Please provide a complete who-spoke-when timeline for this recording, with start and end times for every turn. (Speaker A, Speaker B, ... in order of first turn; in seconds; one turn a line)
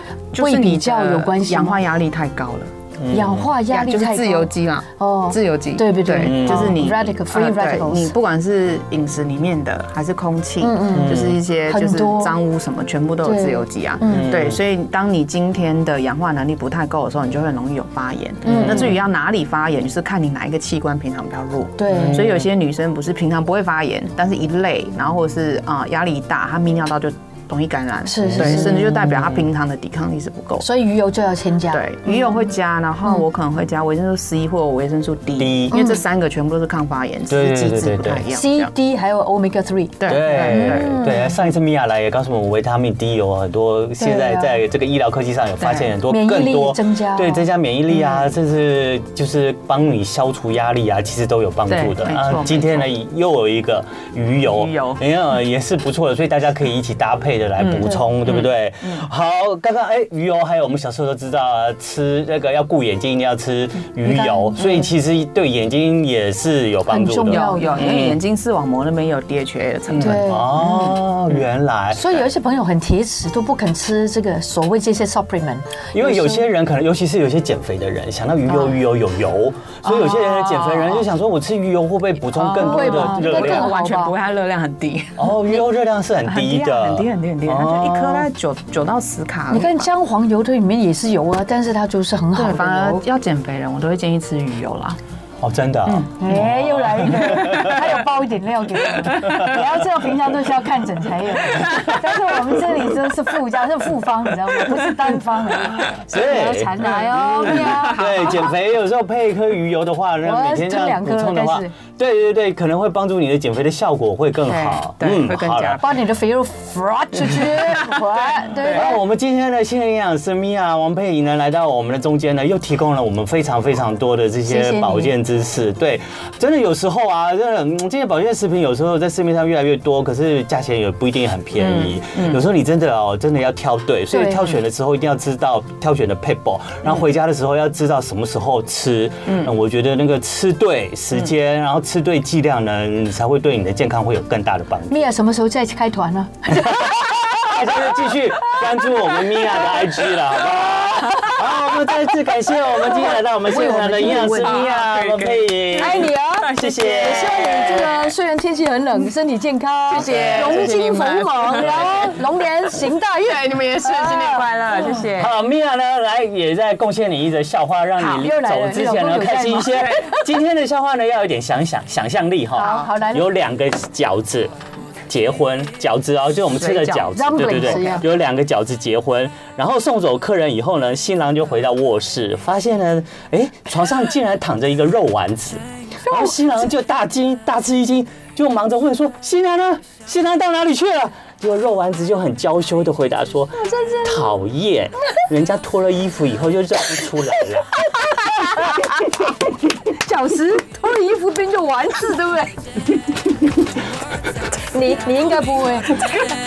Speaker A: 0.3-2.7
Speaker B: 0.3-1.8
Speaker C: 3.0-3.5
Speaker B: 3.1-8.2
Speaker A: 3.7-30.7
Speaker C: 6.2-6.8
Speaker B: 10.6-12.4
Speaker C: 10.9-11.4
Speaker B: 13.2-14.3
Speaker C: 14.1-14.6
Speaker C: 18.4-18.9
Speaker B: 18.5-18.9
Speaker B: 21.8-22.2
Speaker C: 21.9-22.4
Speaker B: 28.1-28.9
Speaker C: 28.2-29.5
Speaker B: 30.6-32.2
Speaker A: 31.7-38.7
Speaker C: 35.4-35.8
Speaker B: 35.7-36.0
Speaker C: 37.3-38.3
Speaker B: 38.3-41.4
Speaker A: 40.0-40.9
Speaker C: 40.1-68.2
Speaker B: 44.0-44.6
Speaker A: 45.6-45.9
Speaker B: 46.1-47.5
Speaker A: 51.7-52.9
Speaker A: 54.5-55.0
Speaker A: 57.6-59.0
Speaker B: 64.0-64.9
Speaker B: 66.9-67.9
Speaker A: 67.3-70.3
Speaker C: 70.0-72.3
Speaker B: 70.0-71.0
Speaker B: 71.9-76.5
Speaker C: 75.9-83.7
Speaker A: 79.9-81.0
Speaker A: 82.4-85.6
Speaker B: 82.4-84.2
Speaker C: 85.2-88.3
Speaker A: 86.2-89.9
Speaker B: 89.5-93.0
Speaker A: 92.3-95.0
Speaker C: 95.4-98.0
Speaker A: 95.9-96.2
Speaker B: 96.2-108.5
Speaker A: 97.3-97.9
Speaker A: 98.9-99.7
Speaker C: 99.2-99.6
Speaker A: 101.5-101.9
Speaker A: 105.7-106.2
Speaker C: 106.1-115.8
Speaker A: 106.8-108.5
Speaker B: 110.2-111.7
Speaker A: 114.4-116.0
Speaker B: 115.8-119.0
Speaker A: 117.4-118.8
Speaker C: 118.7-145.1
Speaker B: 124.5-125.1
Speaker A: 131.6-132.4
Speaker B: 134.1-134.5
Speaker A: 139.3-139.5
Speaker B: 144.9-150.0
Speaker C: 146.5-157.9
Speaker B: 152.7-154.6
Speaker A: 154.0-157.9
Speaker B: 155.8-164.5
Speaker A: 159.9-162.2
Speaker C: 160.0-160.8
Speaker C: 161.6-161.9
Speaker A: 163.2-165.3
Speaker C: 165.1-174.5
Speaker B: 168.0-169.9
Speaker A: 169.7-170.2
Speaker B: 172.6-173.3
Speaker A: 172.6-172.9
Speaker C: 175.1-197.7
Speaker A: 176.6-178.0
Speaker B: 177.1-178.1
Speaker B: 186.1-186.3
Speaker B: 193.6-194.2
Speaker B: 198.2-198.9
Speaker B: 199.9-202.6
Speaker B: 204.7-206.0
Speaker A: 206.0-206.2